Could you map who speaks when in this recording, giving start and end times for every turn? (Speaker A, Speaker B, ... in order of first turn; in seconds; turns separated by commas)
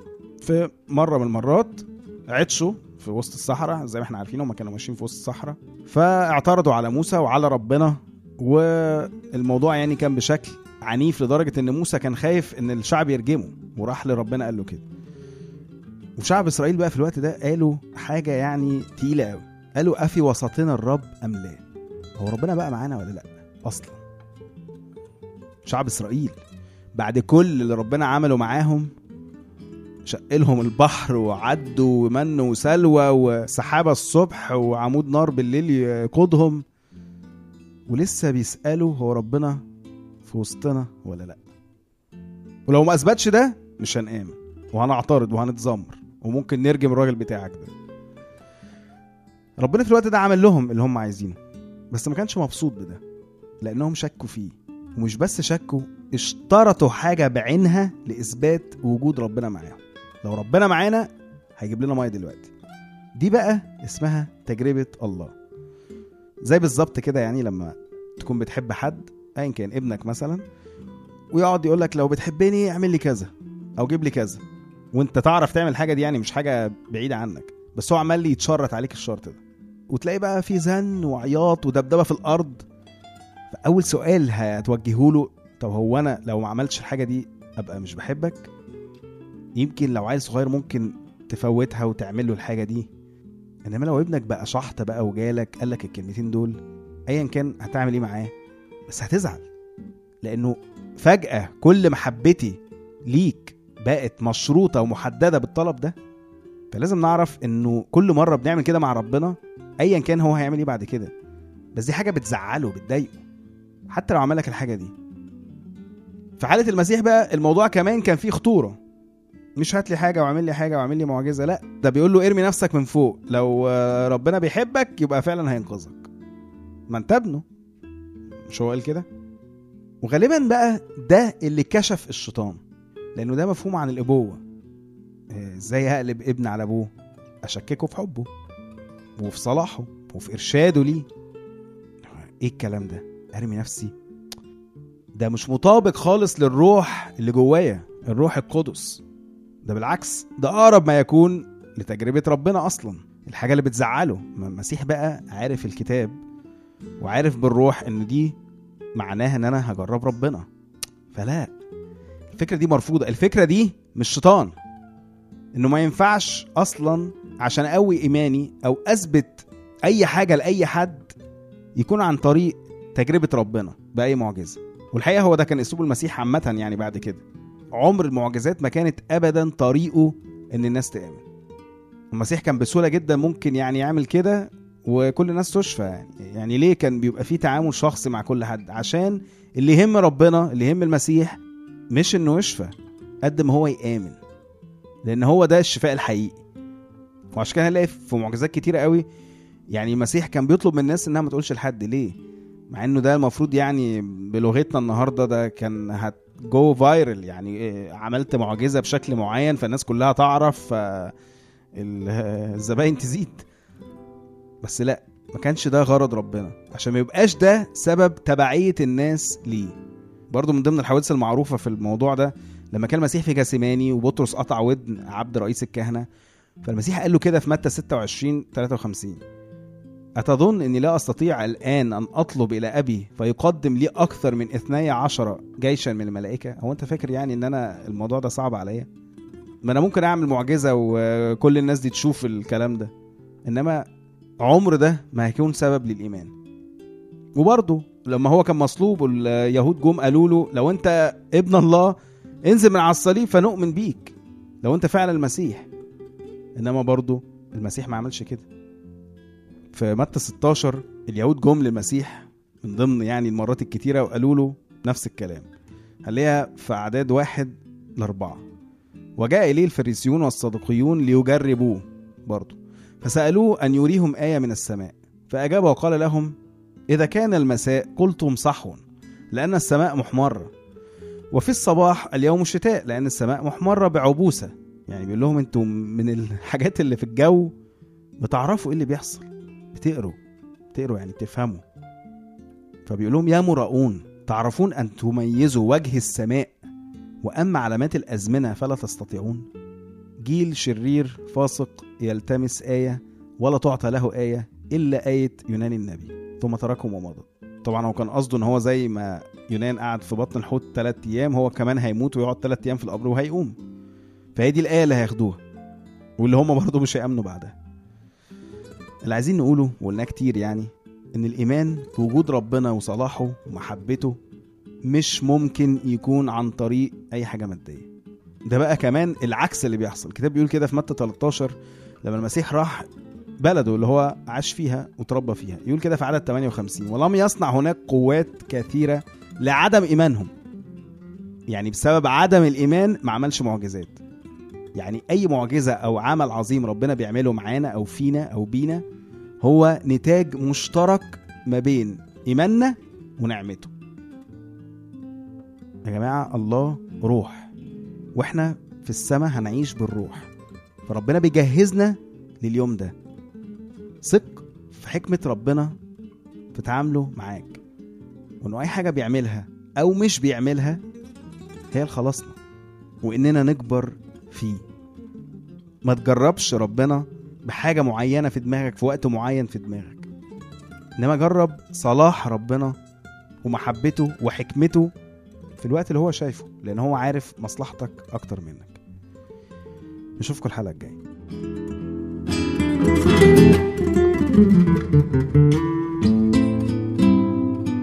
Speaker A: 0.4-14.8, Speaker A: 16.2-21.6, Speaker A: 22.2-24.0, Speaker A: 25.6-26.4, Speaker A: 26.9-28.9, Speaker A: 30.1-36.6, Speaker A: 37.9-39.6, Speaker A: 40.2-41.4, Speaker A: 42.7-47.7, Speaker A: 49.6-51.4, Speaker A: 51.9-53.0, Speaker A: 53.6-62.5, Speaker A: 63.1-65.3, Speaker A: 66.4-70.4, Speaker A: 71.3-82.7, Speaker A: 83.5-88.5, Speaker A: 89.6-92.9, Speaker A: 93.7-98.3, Speaker A: 98.9-99.5, Speaker A: 100.2-106.0, Speaker A: 106.7-111.1, Speaker A: 111.8-113.2, Speaker A: 113.9-114.9, Speaker A: 116.4-118.8, Speaker A: 119.6-126.1, Speaker A: 126.9-127.5, Speaker A: 128.5-129.1, Speaker A: 130.0-132.6, Speaker A: 133.2-134.4, Speaker A: 135.3-136.9, Speaker A: 137.4-138.3, Speaker A: 139.2-141.1, Speaker A: 142.1-143.9, Speaker A: 145.2-149.0, Speaker A: 149.6-156.2, Speaker A: 157.0-158.4, Speaker A: 158.9-160.5, Speaker A: 161.1-161.5, Speaker A: 162.3-164.6, Speaker A: 165.5-171.2, Speaker A: 171.8-181.2, Speaker A: 182.1-191.4, Speaker A: 191.9-192.7, Speaker A: 193.2-194.2, Speaker A: 195.0-196.4, Speaker A: 197.3-199.0, Speaker A: 199.7-202.2, Speaker A: 202.7-211.1, Speaker A: 211.8-213.4, Speaker A: 214.6-219.8, Speaker A: 220.3-226.1, Speaker A: 226.6-229.2, Speaker A: 230.2-238.9, Speaker A: 239.6-242.9, Speaker A: 243.5-243.8, Speaker A: 244.4-246.3, Speaker A: 247.3-255.7, Speaker A: 256.6-258.5, Speaker A: 259.7-265.5, Speaker A: 266.0-268.4, Speaker A: 269.2-276.4, Speaker A: 276.9-280.5, Speaker A: 281.3-287.5, Speaker A: 288.2-290.2, Speaker A: 290.7-291.6, Speaker A: 292.9-296.6, Speaker A: 297.2-299.5, Speaker A: 300.2-313.6, Speaker A: 314.4-315.4, Speaker A: 316.2-317.6, Speaker A: 319.0-324.2, Speaker A: 324.9-327.9, Speaker A: 328.4-332.9, Speaker A: 333.4-340.3, Speaker A: 341.5-344.0, Speaker A: 344.8-348.8, Speaker A: 349.4-353.7, Speaker A: 355.9-357.5, Speaker A: 358.1-360.3, Speaker A: 360.9-362.9, Speaker A: 364.0-365.8, Speaker A: 366.5-367.6, Speaker A: 368.4-370.8, Speaker A: 371.7-372.4, Speaker A: 373.0-374.6, Speaker A: 375.8-380.1, Speaker A: 381.0-382.8, Speaker A: 383.4-384.9, Speaker A: 385.6-388.8, Speaker A: 390.2-391.0